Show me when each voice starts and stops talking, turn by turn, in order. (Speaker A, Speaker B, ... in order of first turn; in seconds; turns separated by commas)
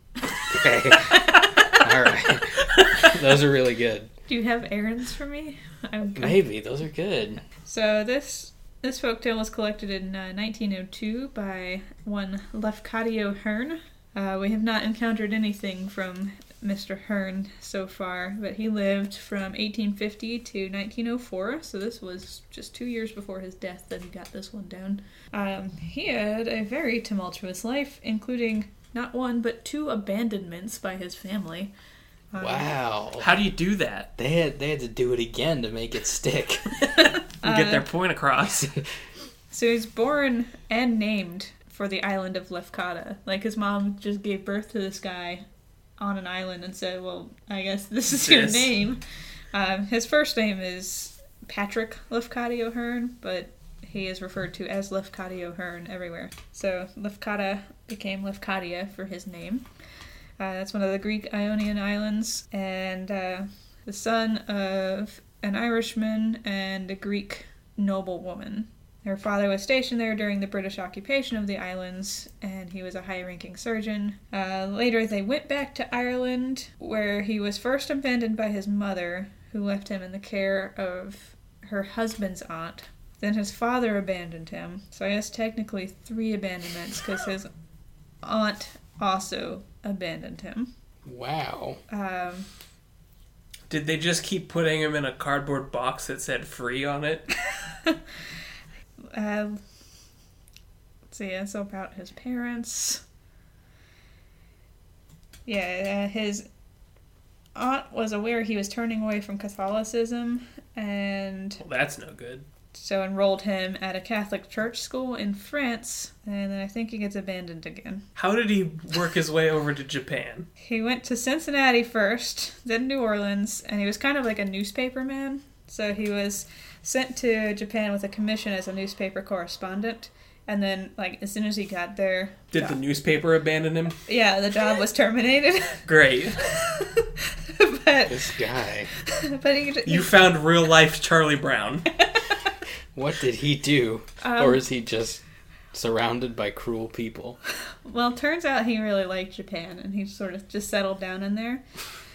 Speaker A: 0.5-4.1, Speaker B: 4.3-6.4, Speaker A: 6.2-7.4, Speaker B: 7.7-31.7, Speaker B: 32.3-32.7, Speaker A: 32.4-33.3, Speaker C: 33.2-34.1, Speaker A: 34.2-36.9, Speaker B: 37.0-37.9, Speaker C: 37.4-38.7, Speaker B: 39.5-45.4, Speaker B: 46.0-49.0, Speaker C: 48.2-48.7, Speaker B: 49.5-59.7, Speaker B: 60.4-87.5, Speaker B: 88.2-90.7, Speaker A: 91.1-91.8, Speaker B: 91.9-92.5, Speaker C: 93.7-97.3, Speaker B: 99.1-99.6, Speaker B: 101.1-103.0, Speaker B: 105.5-106.5, Speaker B: 107.5-111.6, Speaker C: 111.6-112.5, Speaker B: 112.7-118.0, Speaker C: 118.2-120.5, Speaker B: 120.6-132.8, Speaker C: 132.5-134.0, Speaker B: 134.1-135.9, Speaker C: 135.9-136.4, Speaker B: 136.5-138.3, Speaker A: 138.1-138.9, Speaker B: 139.1-140.2, Speaker C: 139.9-141.9, Speaker A: 142.9-145.2, Speaker B: 144.2-144.6, Speaker A: 145.7-147.4, Speaker B: 147.8-151.6